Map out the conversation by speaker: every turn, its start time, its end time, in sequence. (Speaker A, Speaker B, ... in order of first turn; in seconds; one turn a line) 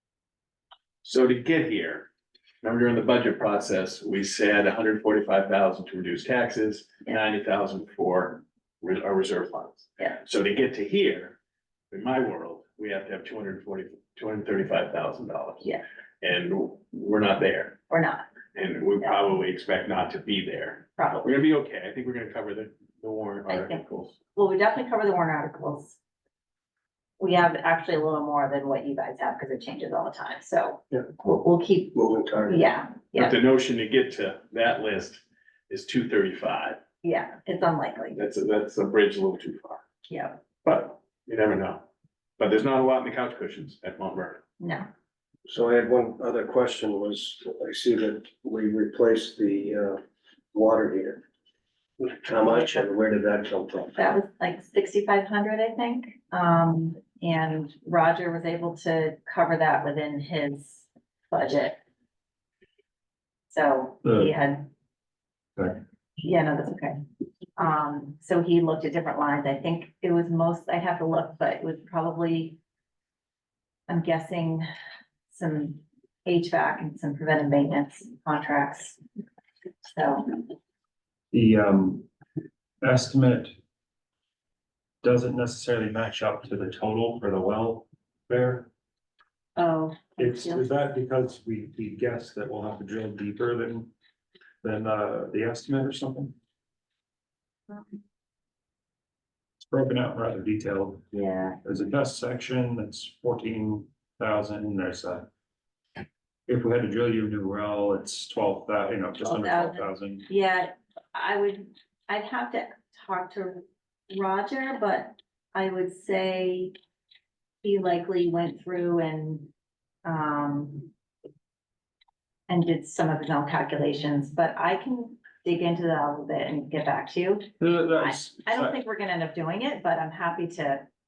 Speaker A: 1.0-2.1
Speaker A: 2.6-11.4
Speaker A: 11.9-15.7
Speaker A: 16.2-17.8
Speaker B: 17.9-18.2
Speaker A: 18.6-24.2
Speaker B: 21.0-21.4
Speaker B: 23.5-23.8
Speaker B: 24.4-26.0
Speaker B: 27.2-33.4
Speaker C: 31.9-32.6
Speaker A: 33.1-36.8
Speaker B: 37.0-38.2
Speaker A: 38.2-39.8
Speaker B: 40.1-40.4
Speaker A: 40.6-41.9
Speaker A: 42.4-44.4
Speaker B: 44.6-44.9
Speaker C: 45.5-50.0
Speaker C: 50.5-51.2
Speaker C: 52.0-54.1
Speaker B: 54.0-61.8
Speaker B: 63.5-64.7
Speaker D: 64.0-64.3
Speaker B: 66.2-67.0
Speaker B: 67.6-72.6
Speaker B: 73.9-74.7
Speaker B: 75.3-79.0
Speaker B: 79.8-80.4
Speaker D: 81.3-82.1
Speaker D: 82.8-83.5
Speaker D: 85.0-88.7
Speaker B: 89.6-90.7
Speaker D: 90.2-93.9
Speaker D: 94.6-96.3
Speaker D: 99.7-101.1
Speaker B: 101.1-101.6
Speaker D: 101.6-105.3
Speaker D: 106.5-110.3
Speaker B: 109.2-116.7
Speaker B: 117.6-119.5
Speaker B: 120.0-120.9
Speaker B: 122.5-130.8
Speaker D: 127.6-128.8